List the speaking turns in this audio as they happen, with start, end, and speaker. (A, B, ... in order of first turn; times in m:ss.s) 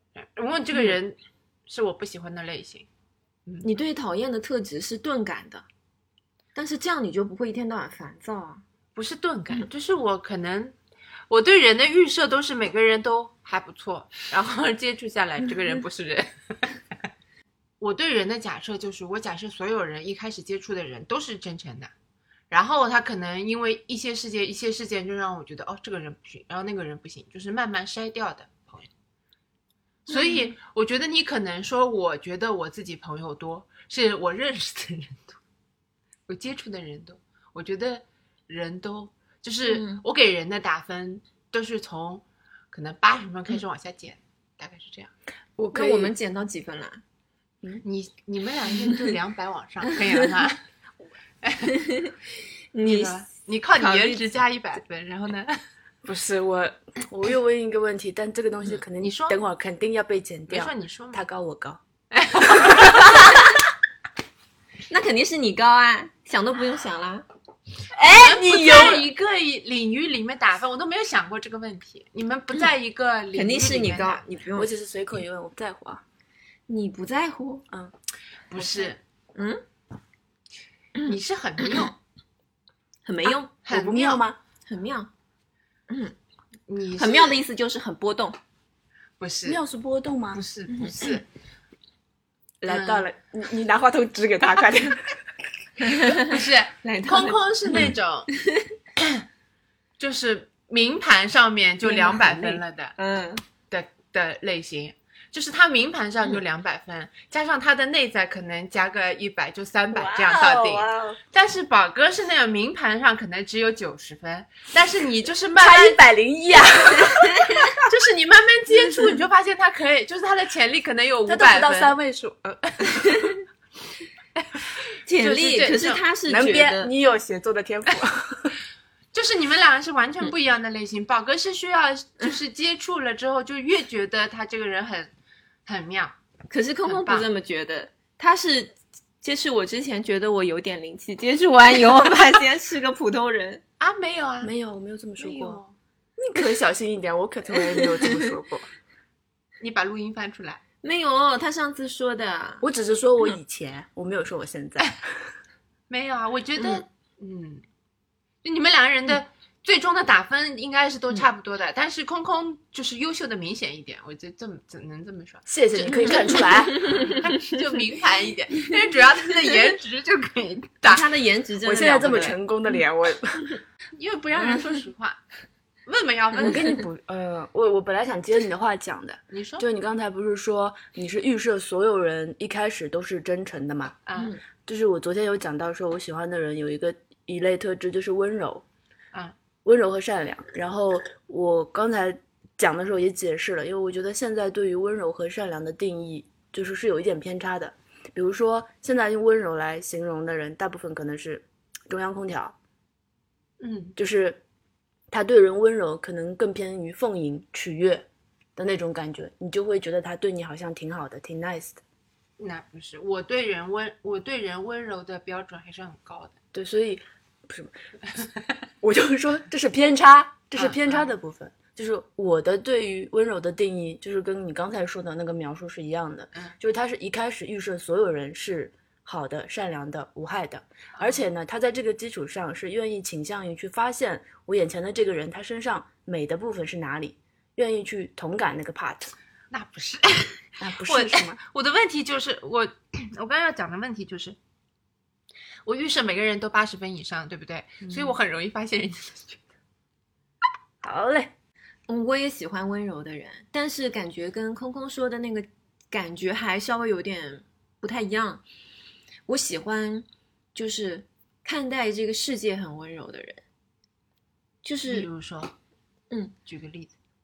0:00.1-0:02.9 A
0:03.6-0:05.6 B
0:06.5-0:08.6 B
0:08.9-0:10.8 A
0:11.3-0:16.3 A
0:17.8-0:21.9 A
0:22.5-0:28.9 A
0:30.1-0:35.4 A
0:30.1-0:30.5 B
0:36.3-0:45.1 A
0:39.6-0:40.0 B
0:45.6-0:46.1 C
0:45.7-0:47.0 B
0:47.8-0:50.6 A
0:51.4-0:51.8 A
0:51.7-0:52.1 B
0:52.7-0:54.2 B
0:52.8-0:55.6 A
0:56.0-1:01.8 C
0:59.0-0:59.4 A
1:00.5-1:01.2 A
1:02.1-1:03.3 A
1:03.1-1:03.5 B
1:04.9-1:07.2 B
1:07.9-1:09.0 B
1:08.0-1:14.2 A
1:08.1-1:09.0 C
1:13.3-1:14.7 B
1:14.5-1:16.0 C
1:16.7-1:17.6 B
1:18.5-1:19.0 A
1:18.6-1:18.9 C
1:19.3-1:19.6 B
1:21.0-1:21.9 B
1:21.1-1:21.9 A
1:23.0-1:23.5 B
1:23.6-1:24.2 A
1:23.7-1:24.4 C
1:24.6-1:25.1 B
1:25.9-1:26.1 B
1:26.7-1:27.4 A
1:27.0-1:28.4 B
1:29.2-1:29.6 A
1:29.4-1:30.4 C
1:30.3-1:31.2 A
1:30.7-1:31.2 B
1:32.6-1:35.2 C
1:32.7-1:33.0 A
1:35.8-1:38.7 B
1:36.0-1:38.3 A
1:39.0-1:39.2 A
1:40.0-1:42.9 A
1:41.8-1:42.6 C
1:43.0-1:43.4 B
1:43.7-1:56.0 A
1:49.9-1:51.2 B
1:55.6-1:57.7 C
1:57.1-1:57.7 B
1:57.8-2:01.9 A
2:01.2-2:03.3 C
2:03.0-2:03.3 B
2:04.4-2:04.6 A
2:05.0-2:06.9 B
2:05.2-2:06.0 A
2:06.3-2:08.5 C
2:09.1-2:15.1 A
2:15.6-2:16.1 A
2:16.5-2:23.6 B
2:16.8-2:17.3 A
2:23.8-2:24.5 A
2:24.4-2:25.6 C
2:25.3-2:25.5 B
2:26.2-2:28.7 C
2:27.8-2:28.2 B
2:29.6-2:30.6 A
2:30.8-2:32.6 B
2:32.6-2:35.0 C
2:35.9-2:37.6 A
2:38.4-2:51.1 A
2:45.5-2:47.0 C
2:46.8-2:47.2 B
2:50.8-2:52.4 B
2:51.6-2:53.6 C
2:54.0-2:55.2 A
2:55.8-2:56.8 A
2:56.4-3:04.0 C
2:59.3-2:59.6 A
3:04.1-3:04.3 A
3:04.6-3:08.6 C
3:09.6-3:22.6 C
3:23.6-3:24.0 A
3:24.0-3:24.4 C
3:25.1-3:31.8 C
3:32.4-3:36.4 A
3:36.5-3:37.7 C
3:38.8-3:59.1 C
3:40.6-3:41.1 A
3:51.0-3:51.2 A
3:59.5-4:04.4 A
4:00.6-4:01.4 C
4:05.6-4:09.4 A
4:10.8-4:11.3 C
4:11.9-4:18.4 B
4:19.3-4:23.4 B
4:24.6-4:25.1 B
4:24.9-4:25.5 A
4:26.4-4:26.9 A